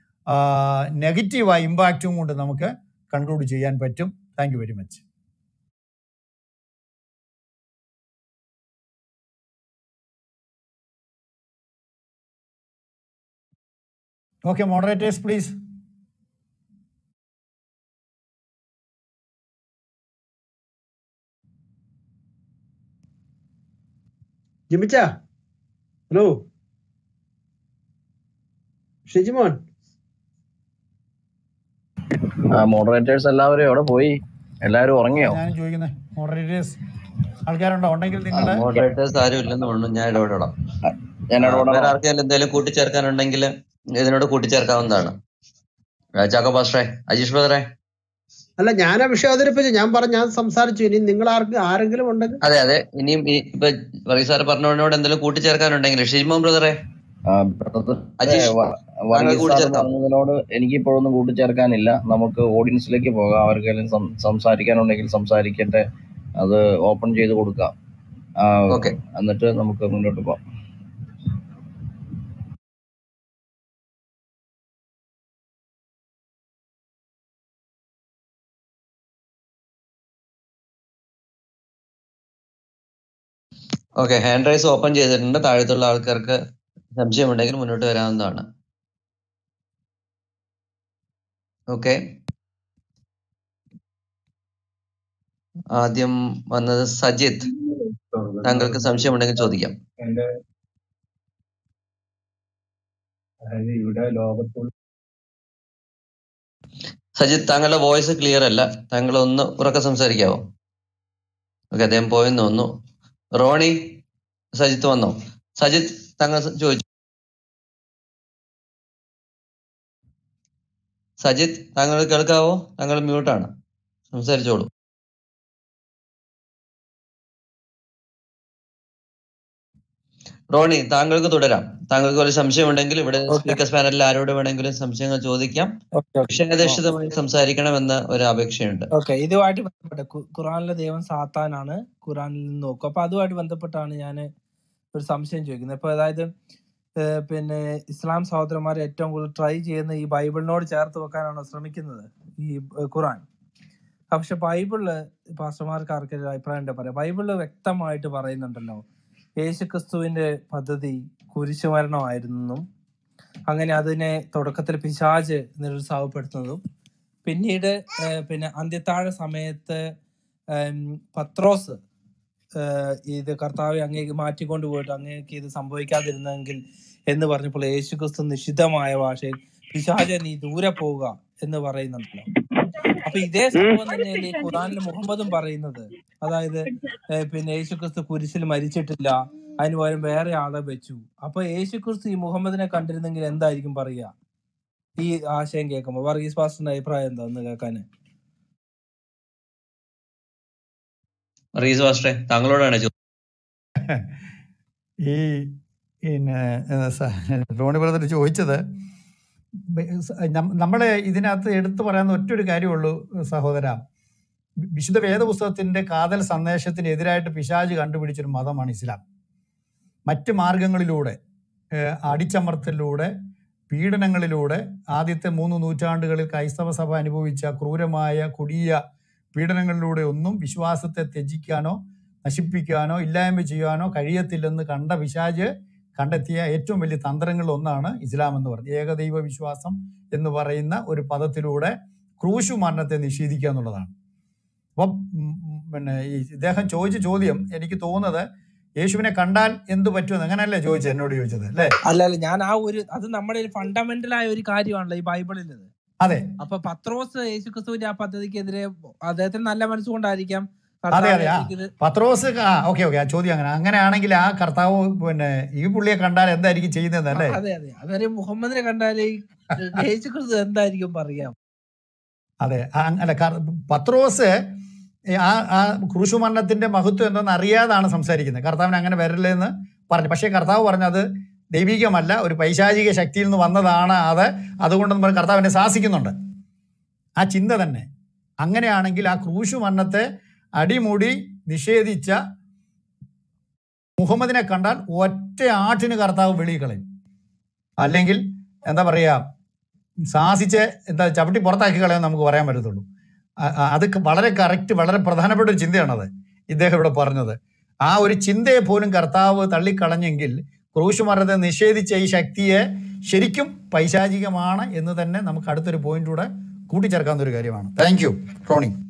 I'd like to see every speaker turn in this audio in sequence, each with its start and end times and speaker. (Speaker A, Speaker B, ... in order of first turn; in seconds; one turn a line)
Speaker A: 0.3-5.0
Speaker A: 14.4-15.5
Speaker B: 24.7-25.1
Speaker B: 26.1-26.4
Speaker B: 29.1-29.6
Speaker C: 32.5-35.4
Speaker A: 35.2-36.8
Speaker A: 37.5-38.7
Speaker D: 38.4-40.5
Speaker C: 41.3-42.0
Speaker D: 41.4-45.1
Speaker D: 46.2-47.6
Speaker B: 48.6-52.4
Speaker D: 52.4-56.7
Speaker C: 57.3-65.8
Speaker D: 58.2-58.5
Speaker D: 59.1-59.9
Speaker C: 66.4-67.7
Speaker C: 68.4-70.4
Speaker D: 68.7-68.9
Speaker D: 84.0-86.4
Speaker D: 86.9-88.4
Speaker D: 91.7-92.0
Speaker D: 95.7-97.5
Speaker E: 98.1-98.9
Speaker D: 98.4-99.7
Speaker E: 103.5-104.7
Speaker D: 107.2-110.4
Speaker D: 111.7-112.7
Speaker D: 113.3-113.9
Speaker D: 114.5-116.8
Speaker D: 121.2-123.5
Speaker D: 124.1-124.7
Speaker D: 130.5-135.7
Speaker F: 133.3-133.6
Speaker F: 136.0-136.8
Speaker D: 136.3-138.9
Speaker F: 138.9-144.3
Speaker F: 144.9-146.3
Speaker F: 147.0-153.2
Speaker F: 154.1-158.8
Speaker F: 159.4-162.6
Speaker F: 163.5-166.6
Speaker F: 167.2-169.9
Speaker F: 170.5-171.8
Speaker F: 172.6-182.3
Speaker F: 183.0-194.1
Speaker F: 195.0-197.8
Speaker D: 201.6-202.9
Speaker A: 203.8-204.1
Speaker A: 205.0-208.6
Speaker A: 209.7-213.8
Speaker A: 214.7-219.0
Speaker A: 220.1-221.2
Speaker A: 221.7-223.1
Speaker A: 223.7-228.8
Speaker A: 229.3-243.9
Speaker A: 244.8-248.2
Speaker A: 248.8-251.7
Speaker F: 251.8-255.7
Speaker F: 256.4-261.7
Speaker A: 260.9-267.4
Speaker F: 267.1-271.3
Speaker A: 272.4-274.3
Speaker A: 275.2-286.1
Speaker A: 287.2-287.9
Speaker A: 288.4-290.0
Speaker A: 290.6-292.2
Speaker A: 294.0-296.8
Speaker A: 297.8-299.2
Speaker A: 300.1-302.8
Speaker A: 303.4-318.7